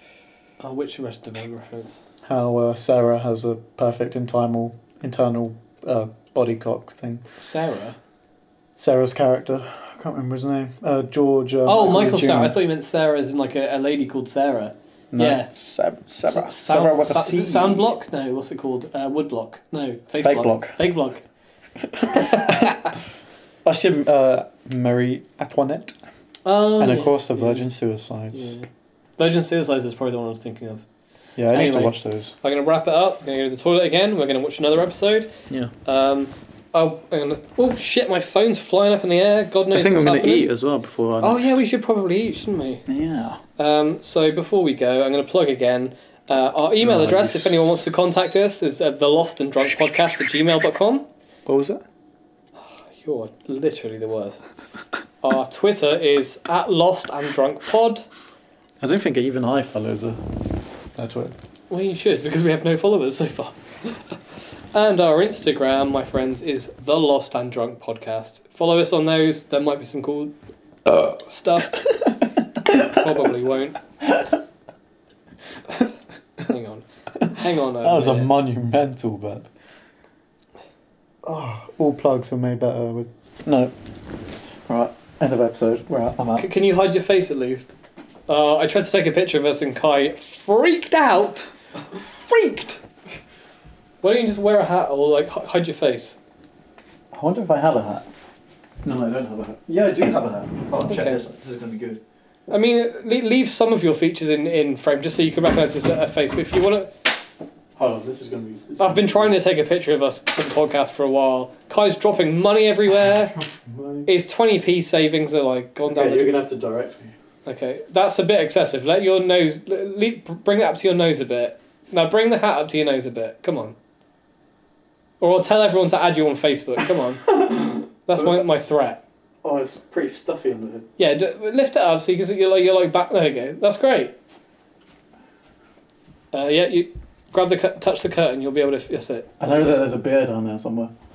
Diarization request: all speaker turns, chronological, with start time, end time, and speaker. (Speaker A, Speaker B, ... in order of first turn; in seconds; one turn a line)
Speaker A: 0.6-2.0
Speaker B: 2.2-7.2
Speaker A: 7.4-8.0
Speaker B: 8.8-12.6
Speaker A: 11.7-15.5
Speaker B: 15.1-17.9
Speaker A: 16.2-21.2
Speaker B: 20.2-20.8
Speaker B: 21.8-22.7
Speaker A: 22.0-22.9
Speaker B: 23.6-25.9
Speaker A: 26.4-27.6
Speaker B: 26.8-28.5
Speaker A: 28.3-28.7
Speaker A: 29.2-30.9
Speaker B: 31.4-32.3
Speaker A: 31.5-40.5
Speaker B: 39.7-41.6
Speaker A: 41.2-42.9
Speaker B: 42.9-43.4
Speaker A: 43.6-51.1
Speaker B: 46.8-48.0
Speaker B: 49.6-50.1
Speaker B: 51.5-51.8
Speaker A: 52.6-54.4
Speaker A: 55.2-58.1
Speaker B: 58.8-60.2
Speaker B: 60.9-61.4
Speaker A: 61.7-64.2
Speaker A: 64.7-70.3
Speaker A: 70.9-72.1
Speaker A: 72.6-73.8
Speaker A: 76.4-78.3
Speaker B: 77.8-79.5
Speaker B: 81.2-83.7
Speaker B: 84.7-86.5
Speaker A: 86.4-87.7
Speaker A: 88.3-91.5
Speaker A: 92.3-92.8
Speaker A: 94.0-96.2
Speaker B: 97.1-98.1
Speaker B: 98.8-102.0
Speaker A: 100.8-101.2
Speaker A: 102.5-106.9
Speaker B: 107.8-109.3
Speaker A: 108.8-113.4
Speaker B: 113.3-114.1
Speaker A: 114.0-116.4
Speaker B: 115.8-117.1
Speaker A: 117.5-123.8
Speaker A: 125.2-127.3
Speaker B: 127.2-128.4
Speaker A: 128.1-129.0
Speaker B: 129.4-130.9
Speaker A: 131.0-134.2
Speaker A: 136.3-139.8
Speaker B: 139.4-140.9